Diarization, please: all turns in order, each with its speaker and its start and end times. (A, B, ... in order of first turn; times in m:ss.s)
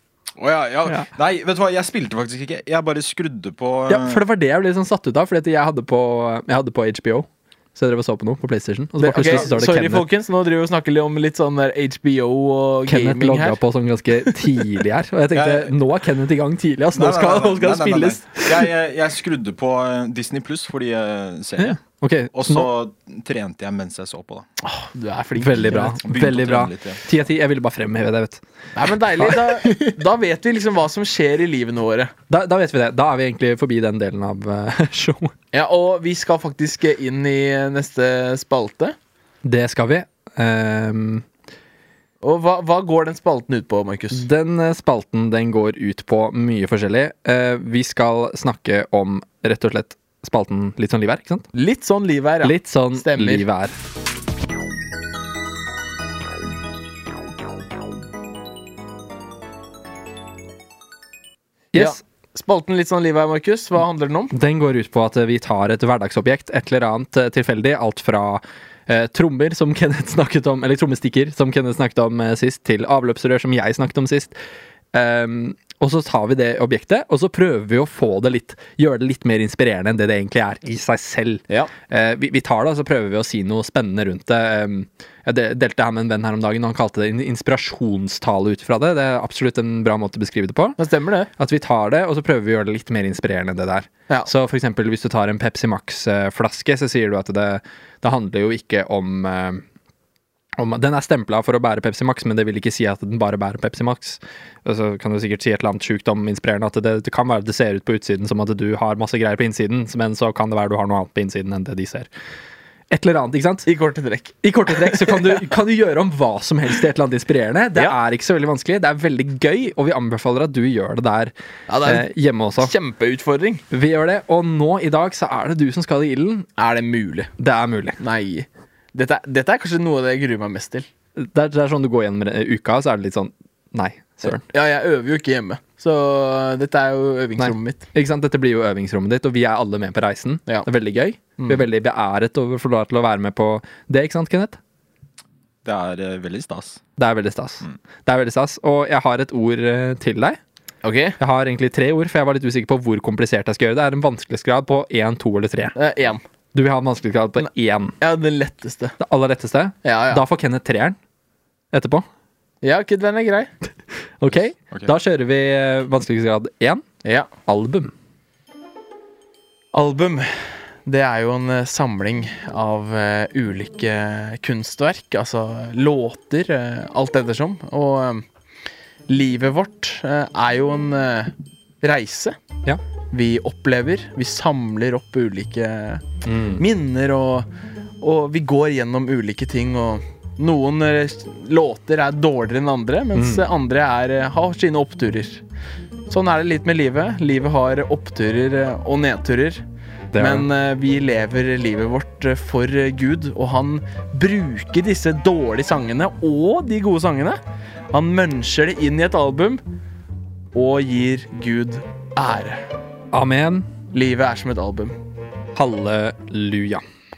0:00.4-0:04.2 A
0:03.9-0:10.1 B
0:09.0-0:13.6 C
0:12.9-0:18.7 B
0:15.3-0:15.7 A
0:16.9-0:21.8 A
0:21.6-0:22.7 B
0:22.3-0:24.5 A
0:24.6-0:26.0 C
0:25.4-0:30.0 B
0:25.6-0:27.0 A
0:28.8-0:32.1 C
0:32.3-0:35.3 B
0:35.5-0:39.0 C
0:39.4-0:41.3 B
0:42.2-0:44.3 C
0:44.1-0:51.5 B
0:51.5-0:53.5 C
0:52.4-0:53.8 B
1:01.7-1:02.0 B
1:01.8-1:04.3 C
1:04.3-1:14.4 B
1:14.9-1:30.8 B
1:30.8-1:31.3 C
1:31.4-1:39.6 B
1:40.6-1:52.1 B
1:52.9-1:53.7 B
1:53.7-1:55.4 C
1:54.4-2:02.7 B
2:01.7-2:03.6 C
2:03.7-2:06.5 B
2:06.6-2:07.3 C
2:07.4-2:08.0 B
2:08.0-2:10.9 C
2:11.2-2:14.4 B
2:14.2-2:17.8 C
2:17.4-2:24.6 B
2:25.6-2:26.8 A
2:27.0-2:30.4 B
2:30.8-2:31.2 C
2:31.2-2:35.8 B
2:35.8-2:36.2 C
2:36.5-2:38.0 B
2:38.0-2:39.0 C
2:39.0-2:41.0 B
2:39.8-2:40.2 C
2:41.7-2:42.1 B
2:42.6-2:43.5 C
2:44.2-2:46.8 B
2:47.0-2:47.3 C
2:47.5-2:47.9 B
2:49.7-2:58.2 C
2:59.1-3:02.4 C
3:03.1-3:06.0 C
3:06.2-3:06.6 B
3:06.6-3:07.5 C
3:08.0-3:15.4 C
3:13.2-3:13.4 B
3:16.1-3:19.6 C
3:20.1-3:20.5 B
3:20.2-3:27.4 C
3:27.9-3:29.6 C
3:30.5-3:32.6 C
3:33.1-3:33.7 B
3:33.9-3:35.0 C
3:35.6-3:36.8 B